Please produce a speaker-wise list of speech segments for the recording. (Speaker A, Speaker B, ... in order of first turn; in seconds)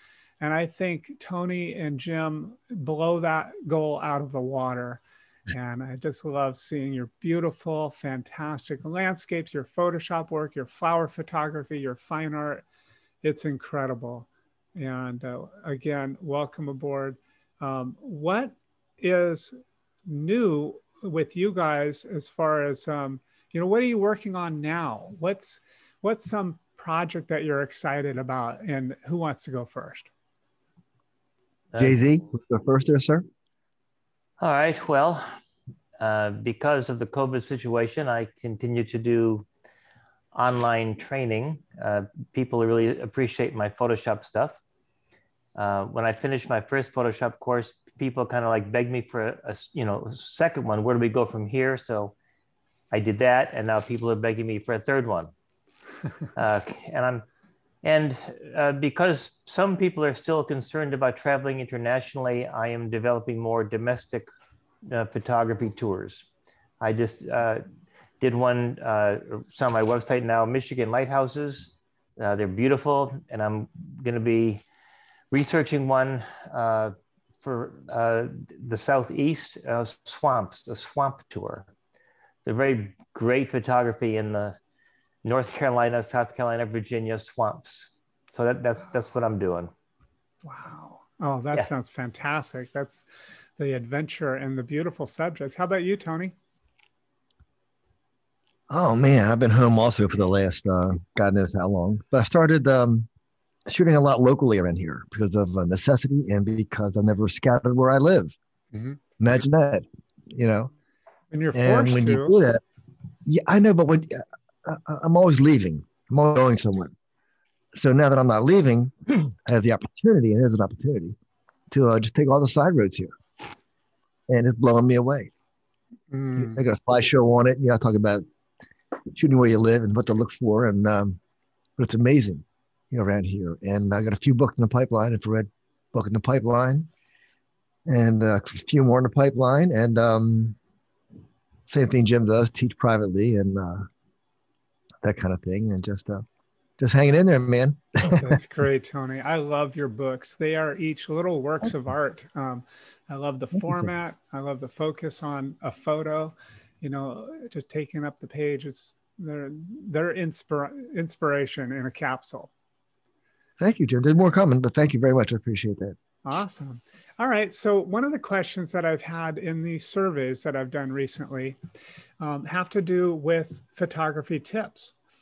Speaker A: 0.4-12.6, 13.2-19.6, 20.1-30.1, 90.4-93.0, 93.6-96.3, 108.7-109.0, 111.3-112.3, 126.1-126.6, 148.1-162.5, 166.2-171.6, 172.2-174.9
Speaker B: 31.8-33.2, 98.7-103.1, 103.7-108.3, 109.2-110.7, 111.5-112.6, 113.2-116.9, 117.7-121.2, 121.7-123.1, 124.3-125.3, 126.4-128.2, 129.1-131.2, 131.8-136.9, 137.9-140.6, 141.7-143.9, 145.0-146.2, 146.8-148.4, 153.6-153.9, 163.6-166.0
Speaker C: 34.4-35.3, 36.0-39.5, 40.3-44.6, 45.5-52.1, 52.9-55.3, 56.4-57.2, 57.8-64.3, 64.8-66.2, 66.8-67.6, 68.2-74.6, 75.3-81.7, 82.4-84.6, 85.2-89.7